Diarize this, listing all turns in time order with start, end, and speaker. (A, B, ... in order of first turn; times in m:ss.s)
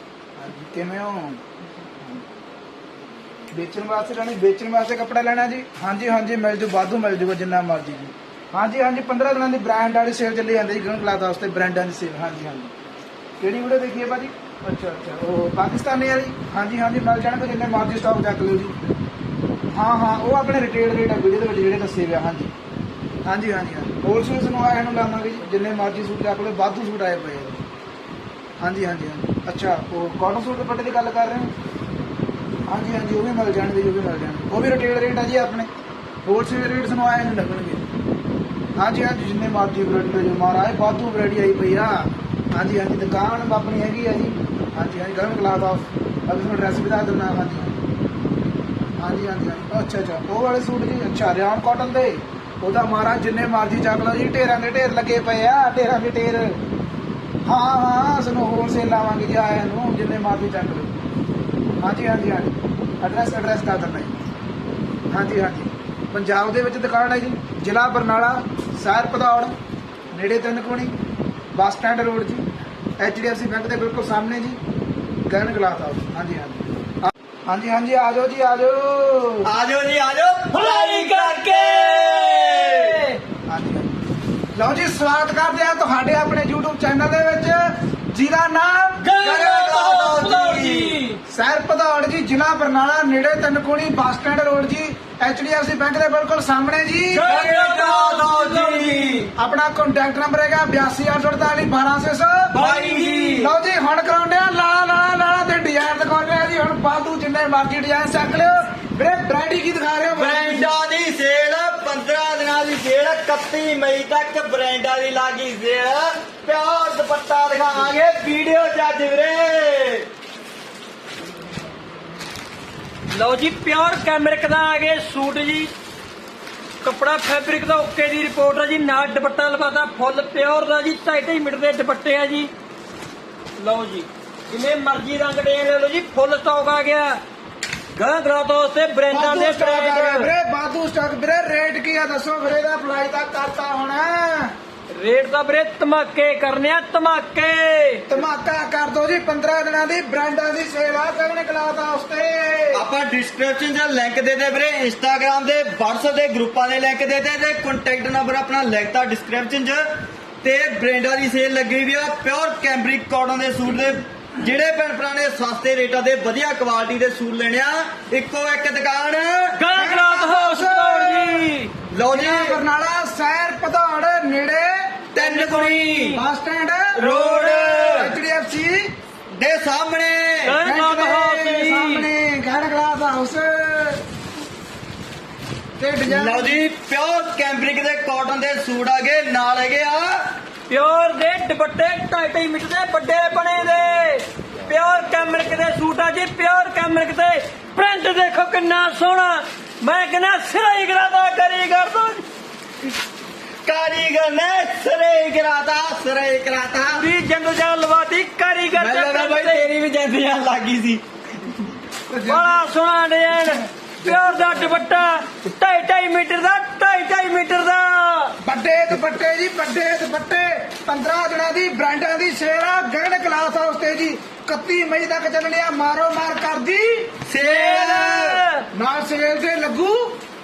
0:00.4-0:01.4 A
0:03.5-0:12.7 A
0:13.4-0:18.8 A
0:19.7-0:22.5 A
0:23.2-0:27.6 A
0:28.6-0:31.5 A
0:32.7-0:35.7 A
0:36.2-0:37.8 A
0:38.8-0:47.8 A
0:49.0-0:56.6 A
0:57.4-1:00.9 A
1:01.8-1:04.2 A
1:05.1-1:09.6 A
1:10.1-1:10.9 A
1:11.5-1:12.4 A
1:13.0-1:14.6 A
1:15.2-1:19.5 A
1:19.4-1:22.9 B
1:20.5-1:23.2 C
1:23.5-1:24.0 A
1:24.6-1:29.6 A
1:29.0-1:31.2 C
1:29.2-1:31.0 B
1:31.3-1:37.3 A
1:37.1-1:39.3 C
1:37.2-1:39.3 B
1:39.4-1:42.6 A
1:42.6-1:43.5 C
1:42.6-1:43.5 B
1:43.4-1:50.7 A
1:50.1-2:00.1 B
2:03.1-2:05.7 C
2:06.8-2:12.5 C
2:13.6-2:17.2 C
2:18.0-2:20.3 C
2:19.1-2:24.5 A
2:24.9-2:28.1 C
2:28.1-2:32.8 A
2:32.7-2:39.8 B
2:40.4-2:49.6 B
2:49.6-2:51.7 C
2:49.7-2:51.5 A
2:51.9-2:52.6 B
2:52.1-2:55.0 A
2:55.1-2:56.2 B
2:55.2-2:56.2 C
2:56.1-2:57.0 A
2:57.0-2:58.2 B
2:57.0-2:57.6 C
2:57.6-2:58.9 A
2:59.3-3:00.6 B
3:00.4-3:02.1 C
3:00.6-3:04.0 A
3:05.8-3:06.6 A
3:06.1-3:10.3 B
3:10.7-3:22.2 C
3:23.6-3:27.1 B
3:27.0-3:29.7 C
3:28.8-3:31.5 B
3:32.1-3:32.6 A
3:32.3-3:38.4 C
3:33.4-3:34.8 A
3:38.4-3:47.1 A
3:47.3-3:48.4 B
3:47.4-3:48.6 C
3:48.7-3:50.2 A